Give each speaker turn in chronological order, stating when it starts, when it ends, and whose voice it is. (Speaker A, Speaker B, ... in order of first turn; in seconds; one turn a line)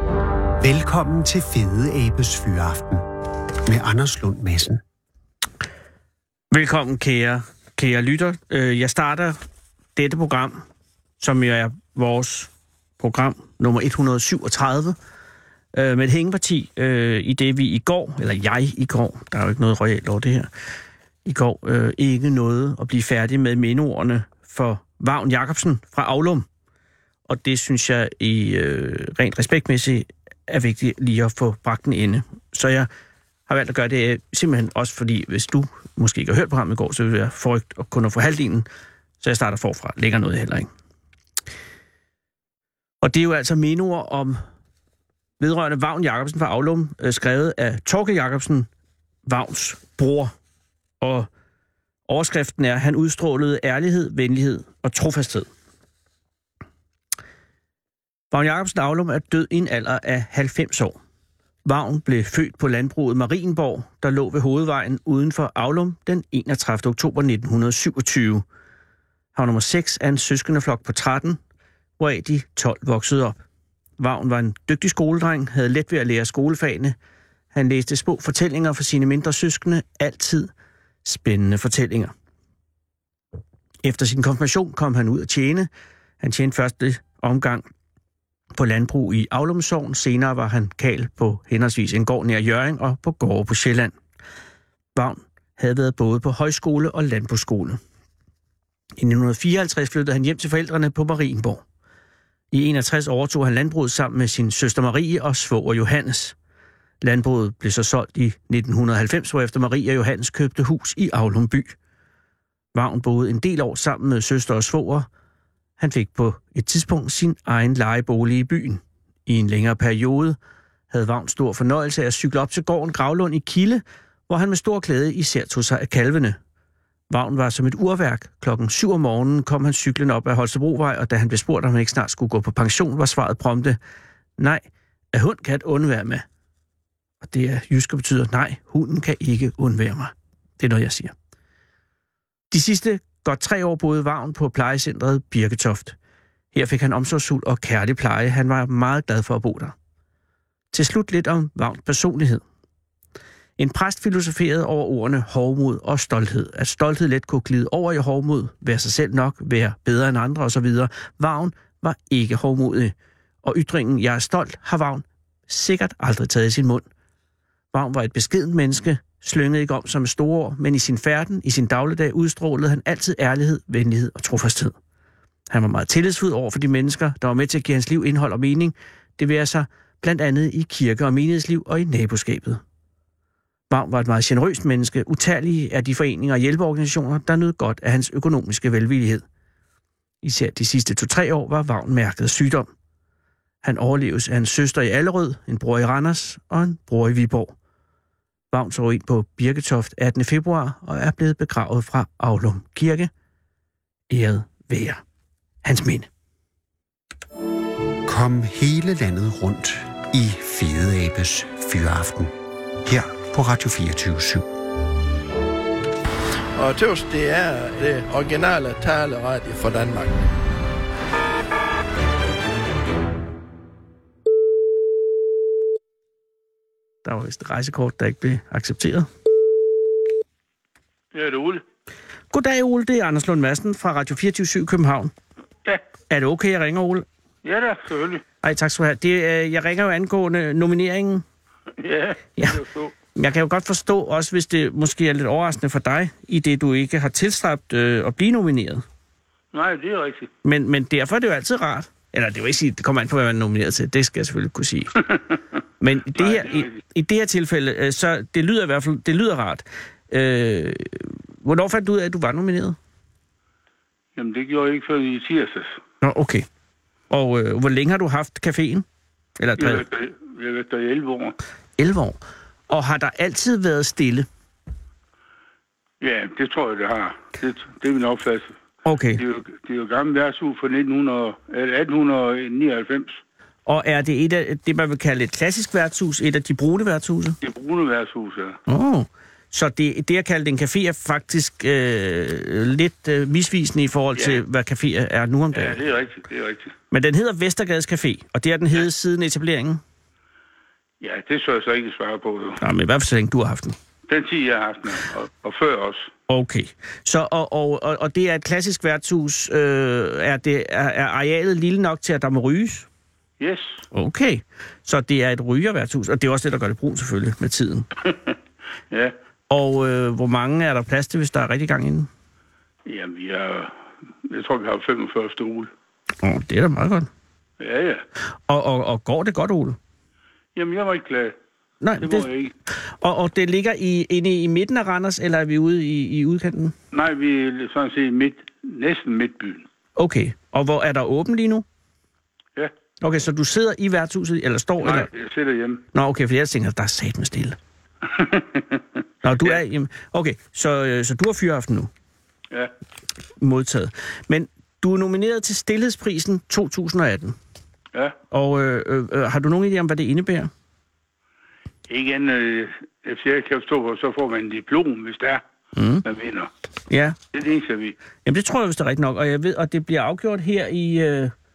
Speaker A: 0.6-3.0
Speaker A: 3.6-4.8
Speaker B: 6.5-9.3
Speaker B: 9.9-10.6
Speaker B: 11.2-14.9
Speaker B: 15.7-20.5
Speaker B: 21.2-26.4
Speaker B: 27.3-32.9
Speaker B: 33.5-38.7
Speaker B: 39.2-40.7
Speaker B: 43.0-44.4
Speaker B: 45.4-48.7
Speaker B: 49.2-50.3
Speaker B: 51.0-51.3
Speaker B: 52.1-55.5
Speaker B: 58.3-61.0
Speaker B: 61.6-68.4
Speaker B: 69.3-71.4
Speaker B: 72.0-73.4
Speaker B: 74.0-76.9
Speaker B: 77.5-80.5
Speaker B: 81.0-82.1
Speaker B: 83.8-85.7
Speaker B: 86.2-87.6
Speaker B: 88.5-93.9
Speaker B: 94.9-97.8
Speaker B: 99.0-101.6
Speaker B: 102.5-106.3
Speaker B: 107.0-111.7
Speaker B: 112.7-115.1
Speaker B: 115.8-120.4
Speaker B: 120.9-126.4
Speaker B: 127.1-133.8
Speaker B: 134.4-136.2
Speaker B: 137.2-141.1
Speaker B: 142.5-145.9
Speaker B: 146.5-149.7
Speaker B: 150.7-152.4
Speaker B: 153.6-166.8
Speaker B: 167.7-174.7
Speaker B: 175.5-182.6
Speaker B: 183.7-189.2
Speaker B: 190.2-192.7
Speaker B: 193.6-197.5
Speaker B: 198.5-203.1
Speaker B: 204.1-205.0
Speaker B: 205.6-206.1
Speaker A: 208.0-214.5
Speaker C: 216.6-220.2
Speaker B: 227.0-229.1
Speaker D: 231.1-231.6
Speaker B: 232.3-235.1
Speaker B: 236.1-237.0
Speaker D: 237.4-238.2
Speaker B: 238.4-241.2
Speaker D: 241.8-242.9
Speaker B: 243.1-248.8
Speaker D: 249.5-250.3
Speaker B: 250.4-255.1
Speaker B: 255.8-262.8
Speaker D: 256.1-256.8
Speaker D: 264.1-265.8
Speaker B: 266.0-266.4
Speaker B: 267.1-268.8
Speaker B: 269.4-269.8
Speaker D: 269.6-271.4
Speaker B: 271.8-274.3
Speaker D: 276.0-278.5
Speaker B: 278.8-279.2
Speaker D: 279.2-283.2
Speaker B: 283.6-287.4
Speaker D: 287.4-288.6
Speaker B: 288.7-295.8
Speaker D: 294.1-294.4
Speaker D: 295.5-296.7
Speaker B: 296.9-299.8
Speaker D: 301.0-302.6
Speaker B: 302.6-303.8
Speaker D: 304.1-306.1
Speaker B: 306.3-312.9
Speaker D: 313.4-313.9
Speaker B: 313.9-317.9
Speaker B: 319.5-322.1
Speaker D: 322.9-325.7
Speaker B: 326.2-327.1
Speaker D: 327.6-328.0
Speaker B: 328.5-329.8
Speaker D: 330.5-331.3
Speaker B: 331.8-332.3
Speaker D: 332.0-332.5
Speaker B: 333.0-336.7
Speaker D: 336.9-339.6
Speaker B: 339.9-341.6
Speaker B: 343.0-345.1
Speaker D: 344.8-345.9
Speaker B: 345.9-347.6
Speaker D: 348.1-349.6
Speaker B: 349.2-351.9
Speaker B: 353.4-357.4
Speaker B: 358.3-360.5
Speaker D: 361.9-365.4
Speaker B: 365.7-366.0
Speaker D: 366.0-366.5
Speaker B: 366.9-367.1
Speaker D: 367.3-368.0
Speaker B: 368.2-371.3